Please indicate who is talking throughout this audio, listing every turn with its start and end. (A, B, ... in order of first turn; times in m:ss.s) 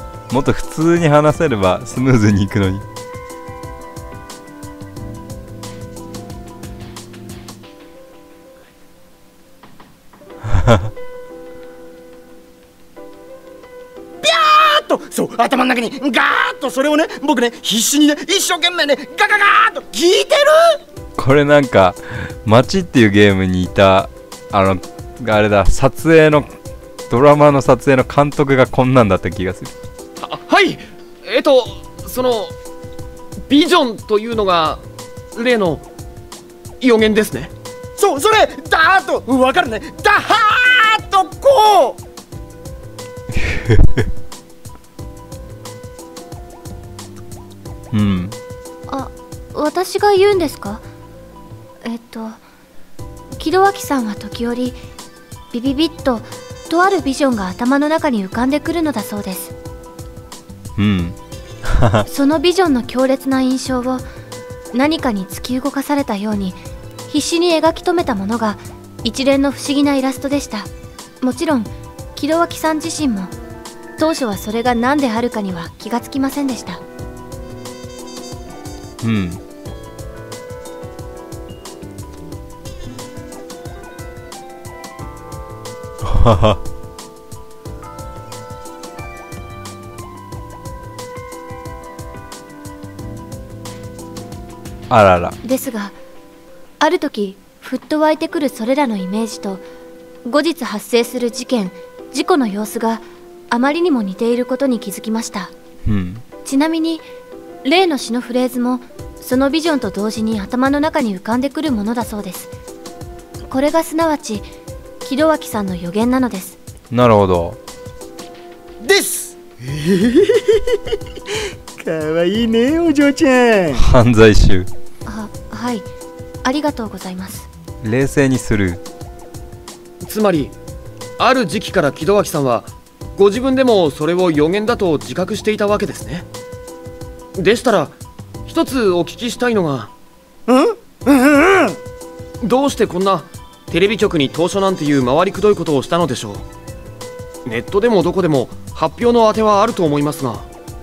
0:00.3-0:02.8 A
0:10.5-0:10.9 A
0:14.2-0:20.8 B
0:21.2-0:26.5 A
0:27.1-0:29.8 A
0:30.2-0:32.5 C
0:33.5-0:34.8 C
0:35.3-0:35.9 C
0:36.8-0:37.5 C
0:38.0-0:42.0 B
0:43.4-0:44.0 A
0:47.9-0:48.4 A
0:48.9-0:50.9 D
0:51.8-0:52.4 D
0:53.4-0:54.8 D
0:55.5-0:59.5 D
1:00.8-1:02.0 A
1:02.1-1:04.1 D
1:04.7-1:10.7 D
1:11.2-1:13.3 D
1:14.0-1:16.8 D
1:19.0-1:19.4 A
1:26.0-1:26.6 A
1:34.9-1:35.4 A
1:35.4-1:36.0 D
1:36.8-1:39.6 D
1:40.2-1:45.5 D
1:45.8-1:46.2 A
1:46.4-1:47.0 D
1:47.6-1:52.5 D
1:53.5-1:54.5 D
1:55.0-1:56.6 D
1:56.9-1:57.6 A
1:58.8-2:00.9 B
2:01.8-2:03.8 B
2:03.7-2:04.7 A
2:05.0-2:05.9 D
2:06.4-2:07.5 D
2:07.8-2:08.8 A
2:10.0-2:10.5 C
2:11.2-2:16.3 C
2:17.4-2:19.9 C
2:20.5-2:21.8 B
2:22.4-2:26.4 C
2:27.4-2:30.5 C